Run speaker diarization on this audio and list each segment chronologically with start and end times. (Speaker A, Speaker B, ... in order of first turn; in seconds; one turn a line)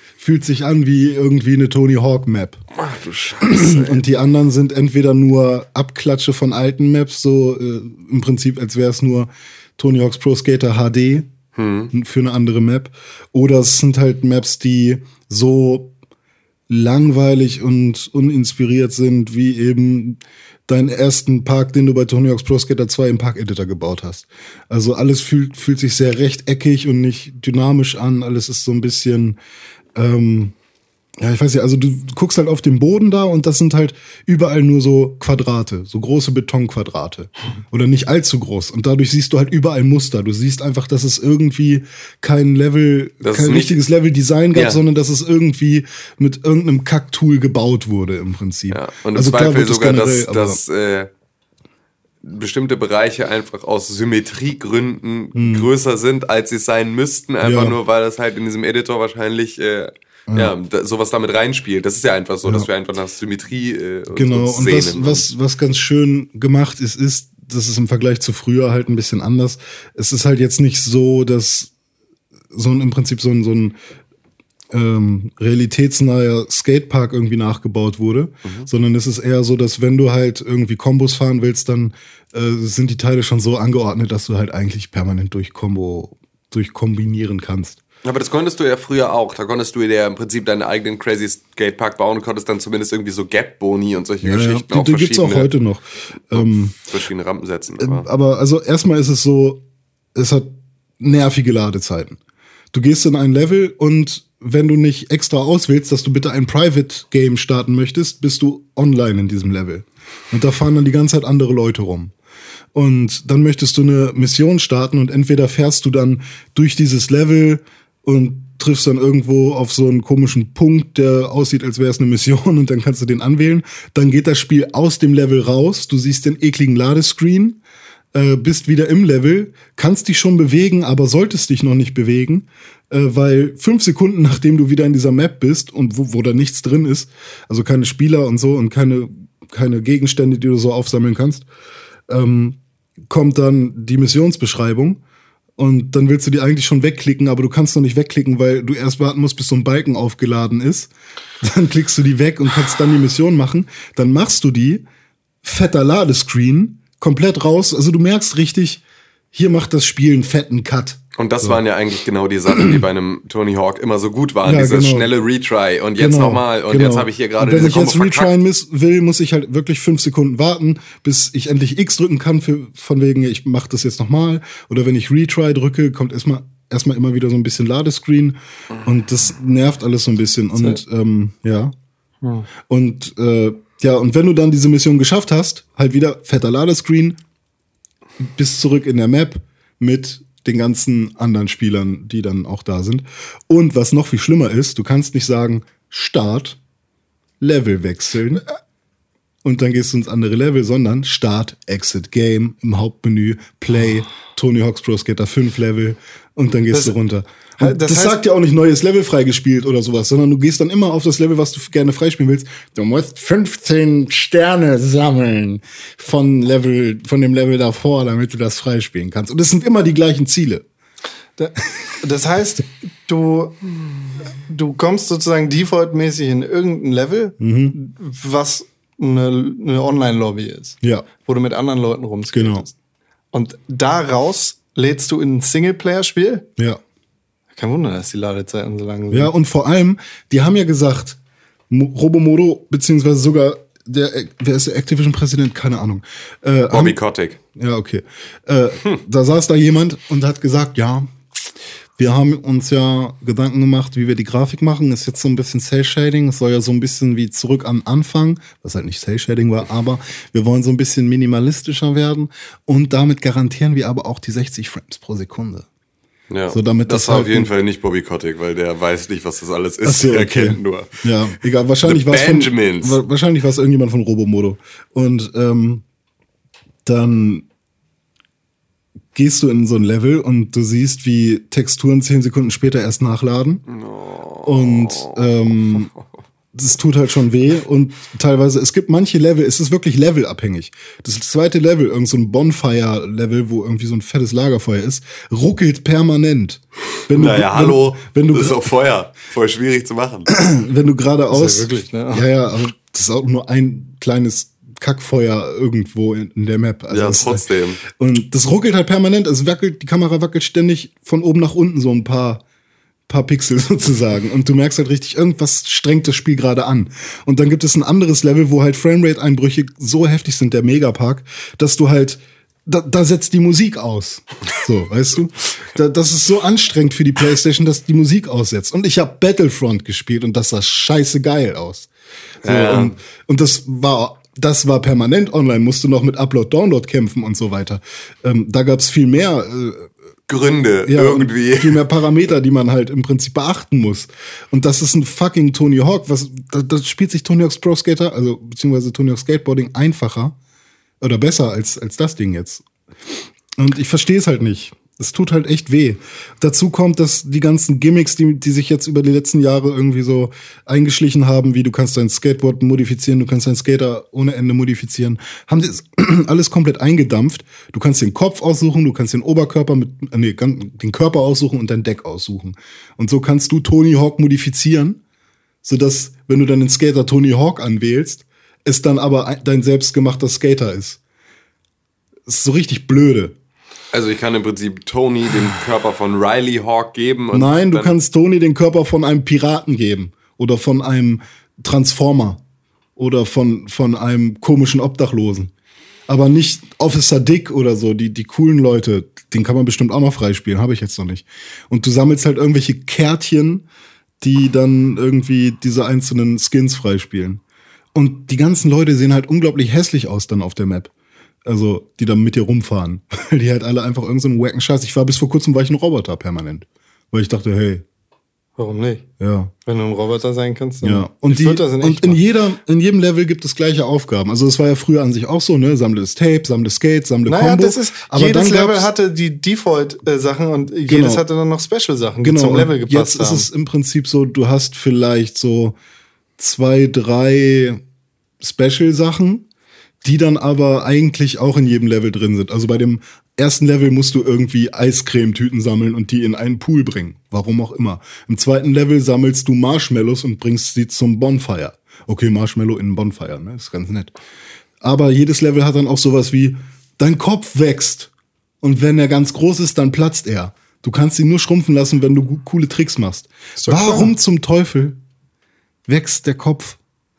Speaker A: 0.2-2.6
Speaker B: 2.8-4.0
Speaker A: 3.4-11.3
Speaker B: 11.6-11.9
Speaker A: 11.9-15.9
Speaker A: 16.7-29.4
Speaker A: 29.9-30.5
Speaker A: 31.2-50.6
Speaker B: 43.2-43.8
Speaker B: 44.5-44.8
Speaker B: 48.7-51.1
Speaker B: 52.2-65.2
Speaker A: 55.3-55.7
Speaker A: 57.4-57.8
Speaker A: 60.3-60.5
Speaker A: 64.1-71.7
Speaker A: 72.5-73.8
Speaker A: 74.7-87.8
Speaker B: 88.0-95.5
Speaker A: 94.2-96.7
Speaker B: 96.3-98.1
Speaker A: 97.8-99.6
Speaker A: 100.1-102.2
Speaker A: 102.7-112.1
Speaker A: 112.7-127.6
Speaker A: 128.1-141.4
Speaker A: 142.1-145.0
Speaker A: 145.6-154.8
Speaker A: 155.4-158.8
Speaker A: 159.3-161.6
Speaker B: 161.2-168.3
Speaker A: 164.4-165.1
Speaker A: 166.0-181.7
Speaker C: 180.6-180.8
Speaker C: 182.2-182.5
Speaker A: 182.7-187.2
Speaker A: 188.2-196.6
Speaker A: 197.4-198.4
Speaker A: 199.4-220.7
Speaker C: 207.6-208.2
Speaker C: 221.4-223.6
Speaker C: 224.4-232.7
Speaker A: 227.4-227.8
Speaker A: 230.8-231.1
Speaker A: 232.3-232.7
Speaker C: 233.3-236.5
Speaker C: 237.6-239.3
Speaker A: 239.1-241.2
Speaker A: 241.7-247.0
Speaker B: 246.7-247.4
Speaker A: 247.5-251.1
Speaker A: 252.0-265.7
Speaker B: 266.3-271.0
Speaker A: 266.5-267.5
Speaker A: 269.8-275.8
Speaker B: 271.8-273.0
Speaker A: 276.8-277.4
Speaker A: 279.1-283.6
Speaker B: 283.7-285.8
Speaker A: 284.4-285.9
Speaker A: 286.5-298.7
Speaker B: 297.1-300.3
Speaker A: 300.3-312.4
Speaker C: 301.3-302.2
Speaker B: 306.9-307.8
Speaker A: 313.1-331.9
Speaker B: 332.4-333.0
Speaker A: 332.4-339.9
Speaker B: 340.3-341.8
Speaker A: 340.9-350.4
Speaker A: 351.0-352.6
Speaker A: 353.6-375.0
Speaker A: 375.6-381.0
Speaker A: 382.2-383.3
Speaker B: 383.9-387.9
Speaker A: 387.3-392.4
Speaker A: 392.9-395.5
Speaker A: 396.1-403.6
Speaker A: 404.2-407.4
Speaker A: 407.9-410.9
Speaker A: 411.4-417.8
Speaker C: 418.6-419.1
Speaker A: 419.2-419.5
Speaker C: 419.6-422.2
Speaker A: 420.8-428.9
Speaker C: 427.2-433.5
Speaker A: 430.9-431.2
Speaker A: 432.2-435.8
Speaker A: 436.4-437.8
Speaker A: 438.4-439.4
Speaker A: 440.0-454.1
Speaker A: 454.8-458.1
Speaker A: 458.6-465.0
Speaker C: 463.6-464.1
Speaker A: 465.9-466.8